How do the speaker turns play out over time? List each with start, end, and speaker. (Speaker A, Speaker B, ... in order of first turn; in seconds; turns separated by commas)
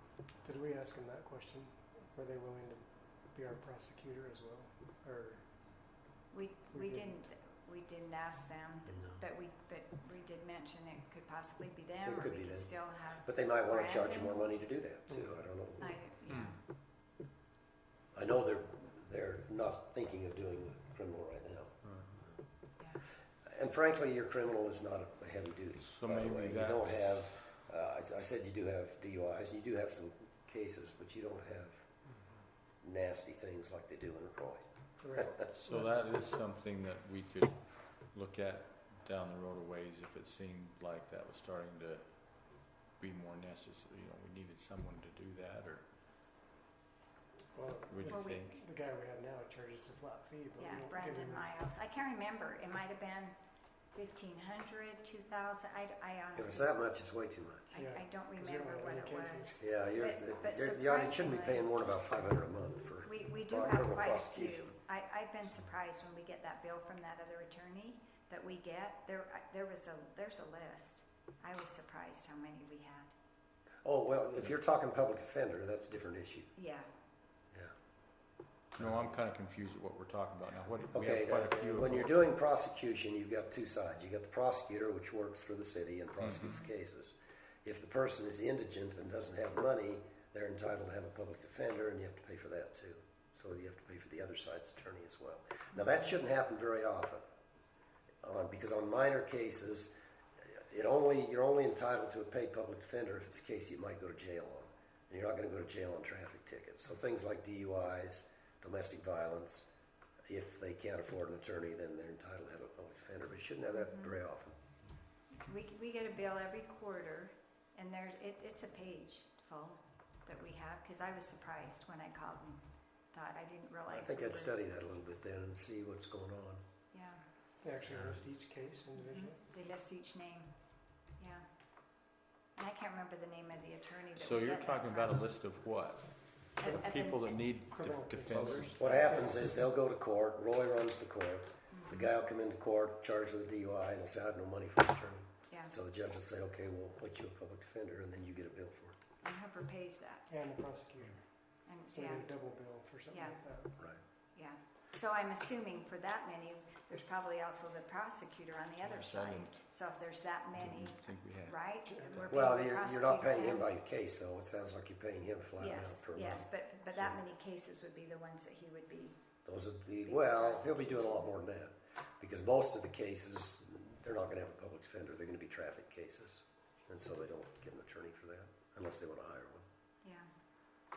Speaker A: 0.4-5.4, Speaker B: 6.3-14.5, Speaker A: 6.7-7.2, Speaker C: 12.0-12.7, Speaker C: 13.2-15.9, Speaker A: 15.1-15.4, Speaker B: 15.8-16.6, Speaker D: 16.3-16.6, Speaker C: 18.1-21.7, Speaker C: 23.5-31.9, Speaker D: 25.8-27.3, Speaker C: 32.8-34.6, Speaker A: 35.0-36.0, Speaker C: 35.2-35.5, Speaker D: 35.5-45.8, Speaker A: 47.5-51.5, Speaker D: 47.9-48.6, Speaker B: 48.1-48.5, Speaker B: 50.6-53.4, Speaker B: 53.9-56.7, Speaker C: 56.3-57.7, Speaker B: 57.7-61.7, Speaker A: 57.7-59.6, Speaker C: 59.6-64.7, Speaker B: 63.0-73.1, Speaker C: 73.8-76.5, Speaker B: 76.6-76.9, Speaker D: 78.8-82.2, Speaker C: 80.9-97.2, Speaker C: 98.2-99.9, Speaker C: 100.4-109.7, Speaker C: 110.3-114.6, Speaker B: 113.7-114.2, Speaker B: 115.4-122.6, Speaker B: 123.1-124.6, Speaker C: 123.9-126.6, Speaker B: 126.9-127.2, Speaker A: 127.6-129.4, Speaker B: 129.0-130.5, Speaker B: 131.2-131.4, Speaker B: 132.6-135.2, Speaker D: 134.2-139.1, Speaker B: 136.6-137.4, Speaker A: 137.7-139.4, Speaker C: 138.3-149.0, Speaker B: 141.7-142.1, Speaker B: 149.2-150.3, Speaker A: 150.3-151.2, Speaker B: 151.7-152.3, Speaker A: 151.9-153.8, Speaker B: 153.1-153.4, Speaker B: 154.4-163.7, Speaker D: 158.8-159.6, Speaker D: 160.6-161.6, Speaker A: 162.0-162.2, Speaker C: 162.3-167.2, Speaker B: 165.6-169.2, Speaker C: 169.4-179.7, Speaker B: 170.0-171.3